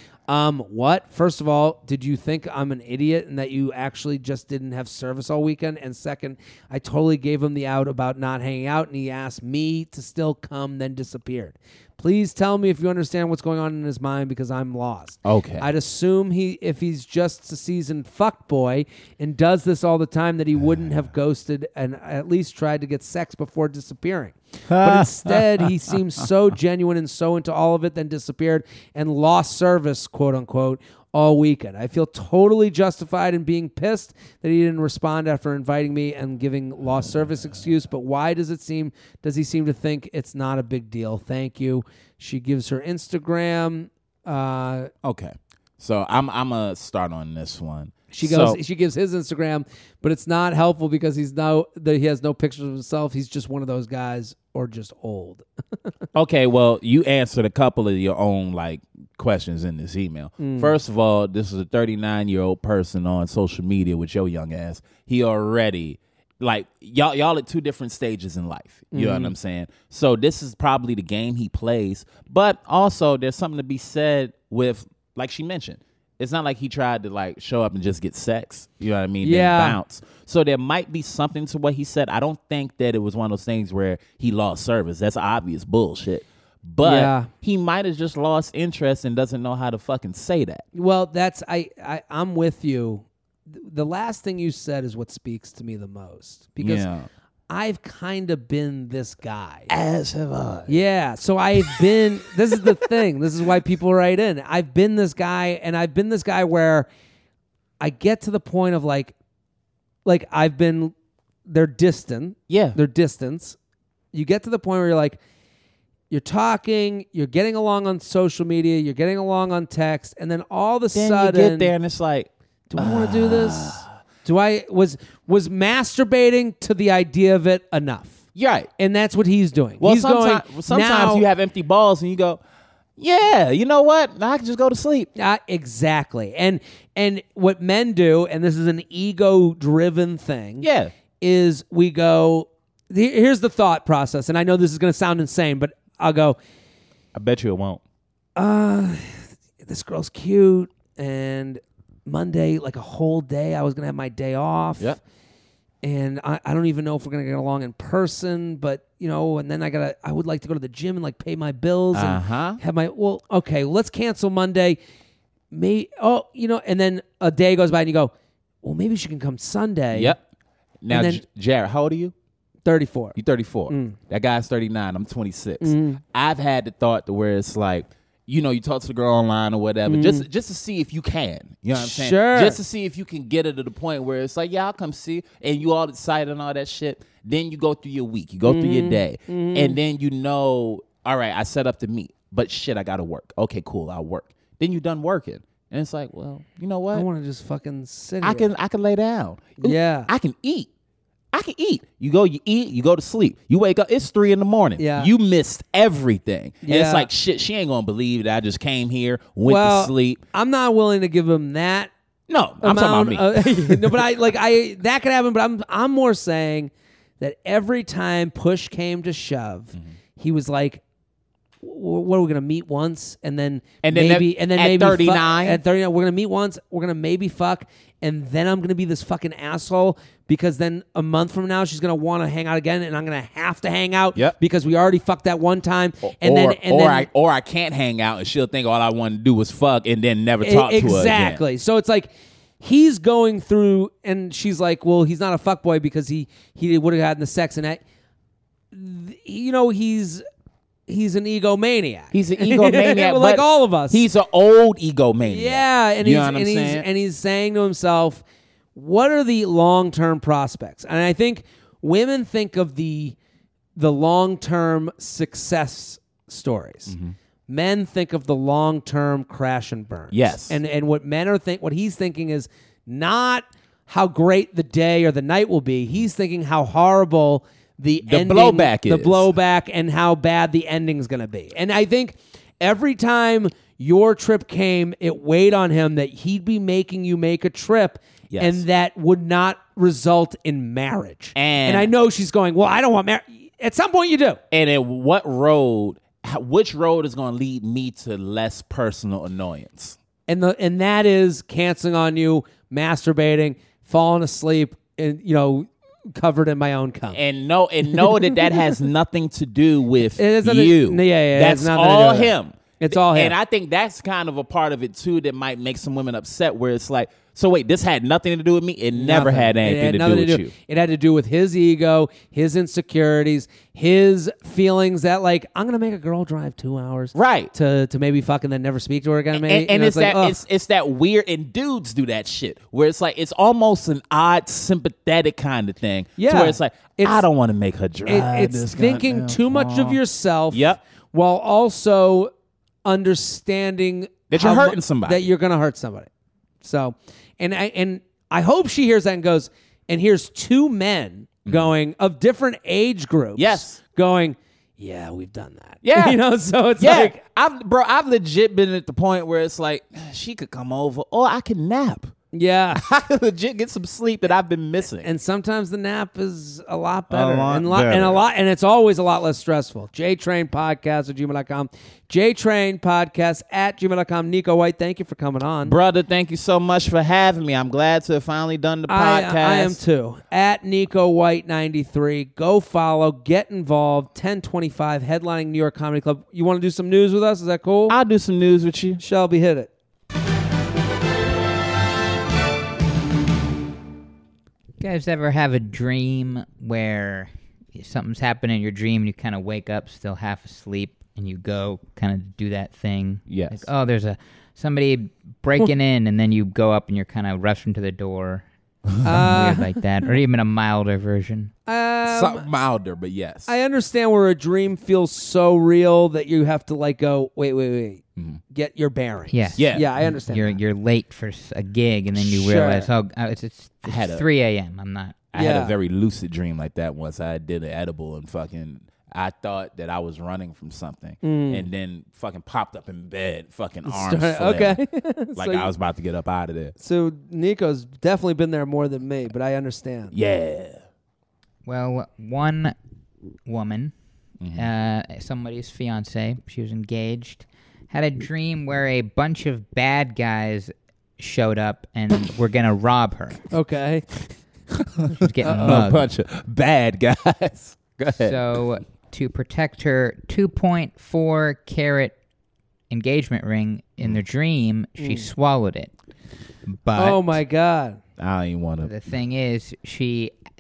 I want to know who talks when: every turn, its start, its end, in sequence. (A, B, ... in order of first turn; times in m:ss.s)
0:00.3-0:44.9 A
0:15.2-0:15.7 B
0:24.7-0:25.7 B
0:45.0-0:48.6 B
0:48.1-0:55.4 A
0:56.1-1:30.6 B
1:00.4-1:00.7 A
1:08.9-1:09.3 A
1:19.2-1:19.8 A
1:26.8-1:27.3 A
1:30.7-1:36.9 A
1:36.6-1:37.1 B
1:37.5-1:39.7 A
1:39.7-1:40.7 B
1:40.7-1:46.9 A
1:47.8-1:49.1 A
1:50.0-1:50.9 A
1:51.4-1:53.6 A
1:52.5-1:52.8 B
1:54.1-1:55.2 A
1:56.1-2:01.7 A
2:00.9-2:03.8 B
2:02.7-2:08.2 A
2:08.3-2:08.7 B
2:08.8-2:11.2 A
2:09.8-2:12.4 B
2:13.0-2:15.1 B
2:15.2-2:20.7 A
2:20.6-2:20.9 B
2:21.2-2:26.4 A
2:27.1-2:27.8 B
2:28.4-2:35.0 A
2:35.8-2:44.8 A
2:41.9-2:42.6 B
2:45.5-2:48.1 A
2:48.6-2:50.2 A
2:49.9-2:50.2 B
2:50.8-2:52.1 B
2:50.9-2:51.2 A
2:52.6-2:53.2 A
2:53.2-3:17.0 B
2:53.7-2:54.0 A
2:55.6-2:56.0 A
2:59.8-3:00.2 A
3:01.7-3:02.6 A
3:08.4-3:09.8 A
3:16.9-3:18.5 A
3:18.2-3:20.7 B
3:19.6-3:20.1 A
3:21.3-3:30.2 B
3:24.8-3:25.1 A
3:26.6-3:27.1 A
3:29.4-3:31.9 A
3:32.3-3:34.0 B
3:32.6-3:40.8 A
3:41.6-3:57.1 A
3:43.8-3:45.6 B
3:56.0-4:01.4 B
4:00.4-4:07.8 A
4:08.7-4:10.2 A
4:10.9-4:14.1 A
4:12.1-4:16.8 B
4:15.2-4:18.2 A
4:18.7-4:23.2 A
4:23.8-4:27.0 A
4:26.9-4:27.1 B
4:27.5-4:54.4 A
4:30.1-4:30.6 B
4:38.0-4:39.3 B
4:48.3-4:48.6 B
4:51.3-4:51.9 B
4:54.5-5:00.0 B
5:00.3-5:07.2 A
5:07.1-5:20.5 B
5:07.9-5:08.5 A
5:10.2-5:13.3 A
5:18.9-5:30.4 A
5:27.1-5:27.5 B
5:29.3-5:40.0 B
5:36.2-5:37.2 A
5:38.0-5:42.3 A
5:40.5-5:40.8 B
5:42.8-5:46.1 A
5:44.3-5:45.2 B
5:46.6-5:57.2 A
5:53.4-5:53.8 B
5:55.8-5:56.2 B
5:56.8-6:02.1 B
6:02.3-6:02.8 A
6:02.7-6:05.1 B
6:05.0-6:15.8 A
6:07.1-6:08.2 B
6:15.6-6:19.8 B
6:18.9-6:28.0 A
6:27.9-6:29.0 B
6:29.0-6:29.7 A
6:34.8-6:48.4 C
6:43.3-6:43.7 B
6:49.0-6:51.5 C
6:49.0-6:49.7 A
6:51.7-6:52.5 A
6:52.1-6:53.5 B
6:53.5-7:00.6 A
6:59.3-7:05.2 C
6:59.6-6:59.9 B
7:02.2-7:02.9 A
7:03.8-7:04.2 B
7:05.3-7:14.8 B
7:05.3-7:05.7 A
7:11.2-7:11.6 A
7:13.8-7:15.7 A
7:15.4-7:16.7 B
7:16.8-7:20.1 A
7:20.1-7:20.8 B
7:21.6-7:22.7 C
7:23.4-7:23.9 C
7:24.4-7:24.7 B
7:24.5-7:33.4 C
7:33.5-7:34.0 A
7:34.8-7:38.4 B
7:35.2-7:36.1 C
7:35.4-7:35.8 A
7:38.1-7:42.1 C
7:42.9-7:45.9 C
7:45.0-7:45.3 A
7:46.7-7:47.3 C
7:47.0-7:48.0 A
7:48.2-7:48.9 B
7:48.8-7:50.4 C